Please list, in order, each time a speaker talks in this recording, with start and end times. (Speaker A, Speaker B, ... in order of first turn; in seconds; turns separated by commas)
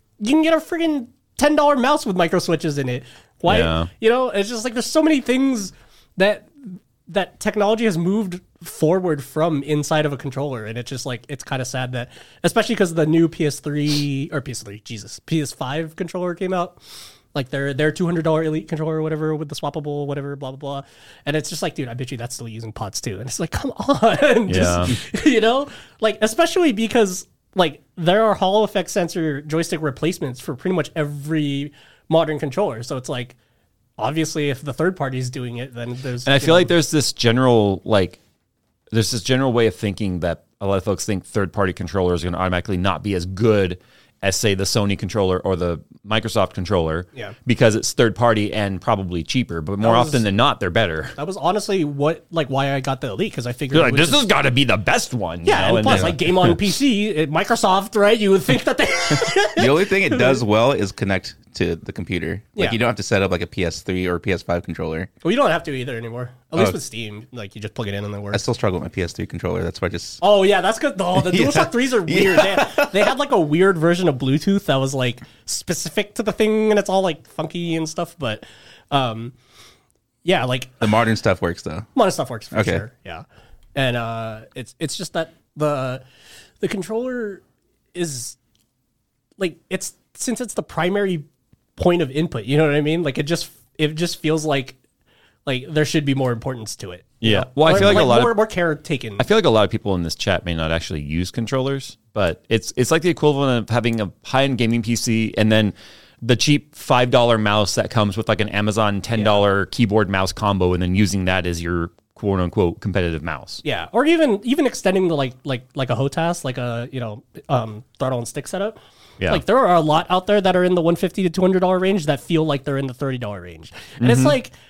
Speaker A: 0.2-16.8, Speaker B: 3.5-3.9, Speaker A: 17.3-33.4, Speaker B: 24.5-24.9, Speaker A: 34.0-36.7, Speaker B: 36.3-38.2, Speaker B: 38.9-51.1, Speaker A: 49.8-50.2, Speaker A: 51.2-54.2, Speaker B: 53.7-56.6, Speaker A: 55.5-60.4, Speaker C: 55.9-56.2, Speaker C: 59.3-65.1, Speaker A: 65.2-68.4, Speaker C: 68.3-70.2, Speaker A: 70.2-79.3, Speaker C: 71.2-73.0, Speaker A: 80.2-80.9, Speaker C: 80.8-81.9, Speaker A: 82.0-83.2, Speaker C: 82.5-82.8, Speaker A: 83.8-86.0, Speaker A: 86.6-87.4, Speaker A: 87.9-88.4, Speaker A: 89.4-91.3, Speaker A: 91.8-94.8, Speaker A: 95.5-99.3, Speaker B: 97.2-98.4, Speaker B: 99.2-113.6, Speaker A: 109.1-109.4, Speaker A: 113.6-124.5, Speaker B: 124.0-124.3